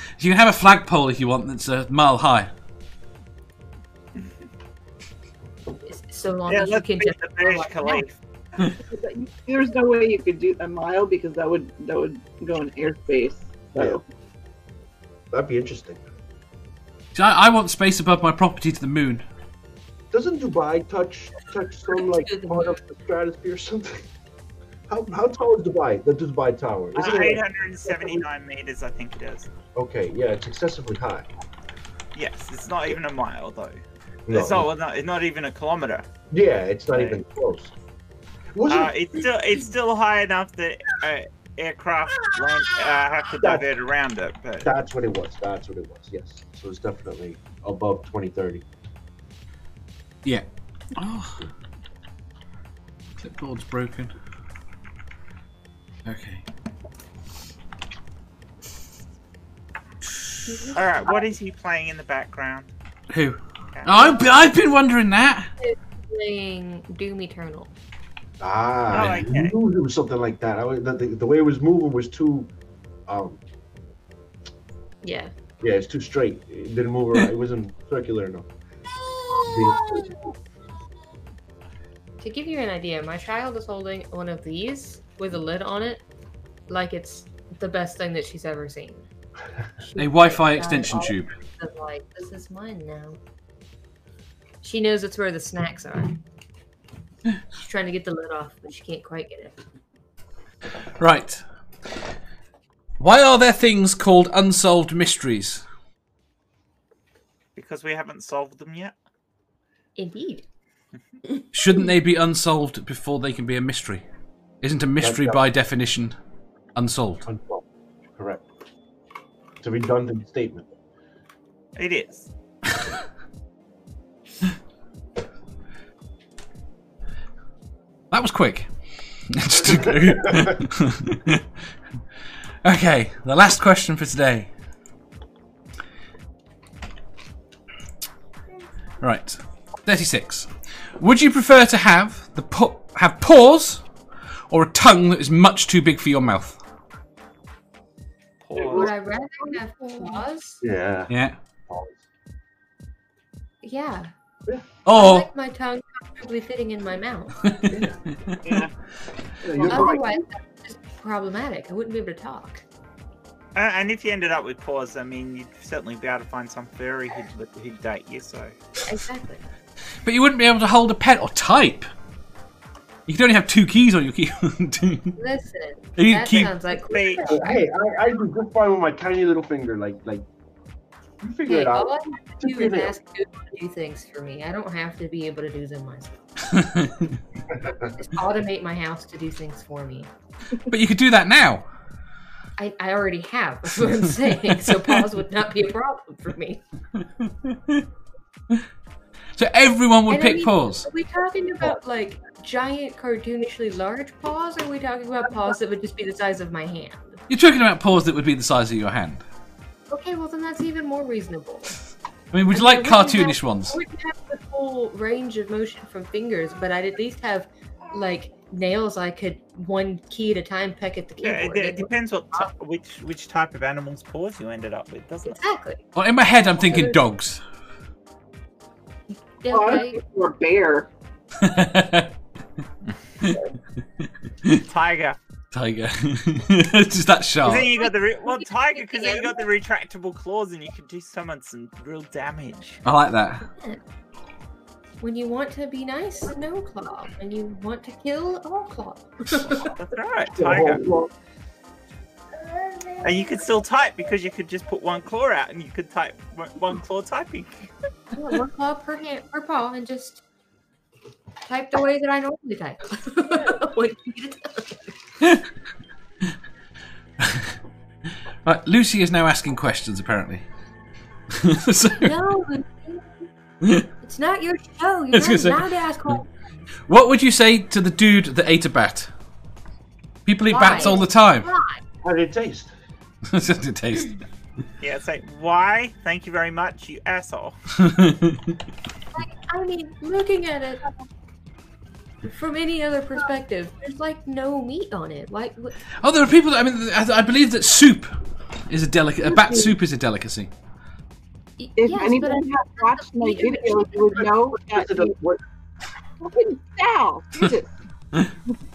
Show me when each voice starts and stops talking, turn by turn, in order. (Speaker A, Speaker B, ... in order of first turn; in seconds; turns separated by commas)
Speaker A: 0.2-2.5, Speaker B: 5.8-8.1, Speaker C: 6.5-8.2, Speaker D: 8.8-14.0, Speaker E: 15.3-16.1, Speaker A: 17.1-19.2, Speaker E: 20.1-24.1, Speaker B: 22.0-22.8, Speaker E: 24.9-28.2, Speaker C: 26.9-29.5, Speaker E: 29.8-31.3, Speaker C: 32.1-33.8, Speaker E: 34.3-34.7, Speaker C: 34.3-36.1, Speaker E: 36.3-37.7, Speaker C: 36.9-37.2, Speaker E: 38.5-38.9, Speaker C: 38.7-44.7, Speaker E: 43.4-43.7, Speaker E: 44.6-48.6, Speaker A: 50.2-51.5, Speaker A: 53.2-54.1, Speaker A: 56.0-56.4, Speaker C: 60.7-62.7, Speaker A: 63.1-65.5, Speaker B: 65.6-67.7, Speaker E: 68.4-72.5, Speaker C: 68.9-69.5, Speaker E: 73.1-73.4, Speaker B: 75.0-75.3, Speaker E: 75.6-78.5, Speaker E: 79.4-80.2, Speaker B: 82.2-86.0, Speaker B: 86.7-89.1, Speaker B: 89.9-93.2, Speaker A: 90.0-91.3, Speaker B: 94.6-96.2, Speaker B: 97.5-99.6, Speaker A: 101.0-101.4, Speaker A: 103.0-105.6, Speaker C: 107.6-109.0, Speaker B: 110.0-110.5, Speaker A: 111.5-114.0, Speaker A: 114.6-116.2, Speaker E: 115.0-115.4, Speaker A: 116.8-117.3, Speaker E: 117.3-117.7, Speaker E: 118.2-118.5, Speaker E: 119.6-120.7, Speaker C: 121.8-122.3, Speaker A: 128.1-128.7, Speaker A: 129.3-131.4, Speaker E: 129.7-130.5, Speaker A: 132.6-134.5, Speaker A: 139.0-143.8, Speaker A: 144.5-146.6, Speaker C: 148.5-148.9, Speaker D: 148.6-148.9, Speaker B: 148.6-150.6, Speaker E: 150.6-151.1, Speaker A: 151.1-151.4, Speaker E: 151.7-152.1, Speaker B: 153.6-154.1, Speaker A: 154.8-155.3, Speaker B: 154.9-157.5, Speaker A: 157.4-158.4, Speaker E: 157.7-158.0, Speaker D: 158.4-158.7, Speaker E: 159.4-160.2, Speaker B: 159.6-162.6, Speaker C: 163.6-168.6, Speaker B: 168.8-169.5, Speaker A: 170.1-171.9, Speaker A: 173.1-175.2, Speaker B: 175.2-177.7, Speaker A: 176.0-176.5, Speaker C: 176.8-177.4, Speaker E: 177.3-180.2, Speaker E: 181.2-182.9, Speaker B: 181.5-186.7, Speaker A: 186.5-187.2, Speaker B: 187.9-190.1, Speaker A: 190.7-191.7, Speaker B: 192.6-196.6, Speaker A: 194.5-195.0, Speaker A: 197.2-197.8, Speaker A: 199.4-200.9, Speaker B: 200.1-207.2, Speaker A: 207.3-209.2, Speaker B: 209.9-211.8, Speaker A: 212.3-213.8, Speaker B: 212.5-222.5, Speaker C: 221.2-225.4, Speaker B: 225.3-225.8, Speaker A: 225.9-227.4, Speaker B: 226.6-227.0, Speaker B: 229.4-230.0, Speaker D: 229.5-230.9, Speaker A: 231.3-232.1, Speaker A: 234.0-234.6, Speaker C: 234.7-235.2, Speaker A: 235.5-237.7, Speaker C: 237.4-242.8, Speaker B: 238.3-239.3, Speaker A: 242.8-243.5, Speaker B: 245.0-249.8, Speaker C: 249.8-250.9, Speaker E: 250.4-251.1, Speaker C: 253.0-257.6, Speaker B: 258.1-260.2, Speaker B: 261.4-265.0, Speaker A: 267.2-267.6, Speaker A: 268.4-270.5, Speaker A: 271.3-272.2, Speaker B: 272.0-273.1, Speaker B: 274.0-276.3, Speaker A: 275.1-275.6, Speaker A: 276.9-279.1, Speaker A: 280.3-281.5, Speaker B: 280.5-281.8, Speaker E: 282.0-282.7, Speaker A: 283.3-284.2, Speaker C: 284.8-287.6, Speaker A: 287.7-288.6, Speaker B: 289.1-290.9, Speaker B: 292.2-295.8, Speaker A: 296.0-300.5, Speaker B: 301.6-304.3, Speaker D: 301.8-305.1, Speaker E: 304.2-305.4, Speaker D: 306.2-307.8